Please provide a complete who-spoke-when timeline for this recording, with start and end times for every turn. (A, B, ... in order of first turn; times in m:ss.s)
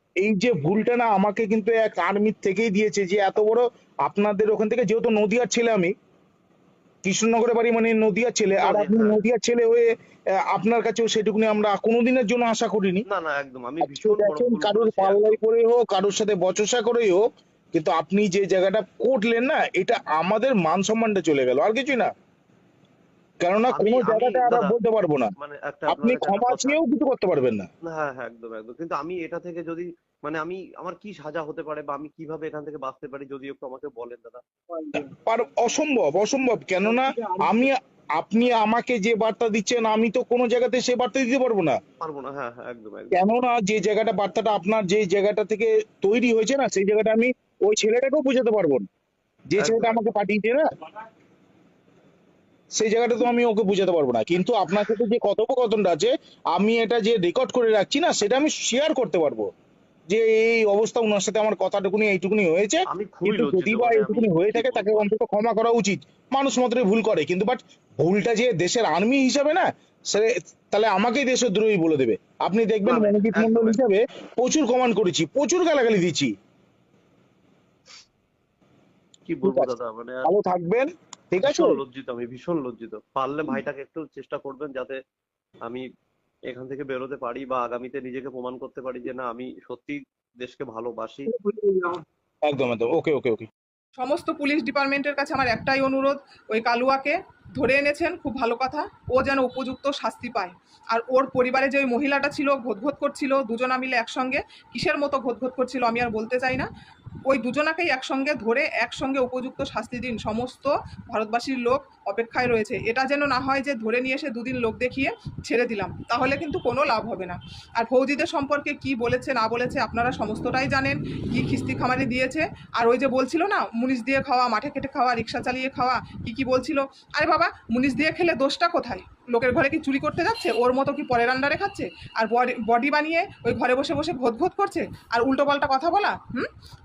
0:00.2-0:05.9 A
0:07.0-0:13.0 A
0:08.6-0:09.2 B
0:13.1-0:15.4 B
0:13.8-0:22.1 A
0:23.4-0:25.3 A
0:23.7-0:24.8 B
0:25.4-0:26.8 B
0:25.9-0:27.7 A
0:27.9-0:34.4 B
0:34.9-0:41.8 A
0:42.0-0:43.2 B
0:43.1-0:48.8 A
0:49.5-0:50.6 A
0:49.6-0:50.0 B
0:52.8-0:59.4 A
1:00.1-1:16.3 A
1:02.9-1:05.1 B
1:12.8-1:13.8 B
1:19.3-1:20.2 B
1:19.4-1:19.7 A
1:20.2-1:21.8 A
1:21.4-1:25.0 B
1:26.5-1:31.3 B
1:31.3-1:33.4 A
1:34.0-1:46.7 C
1:47.2-2:16.5 C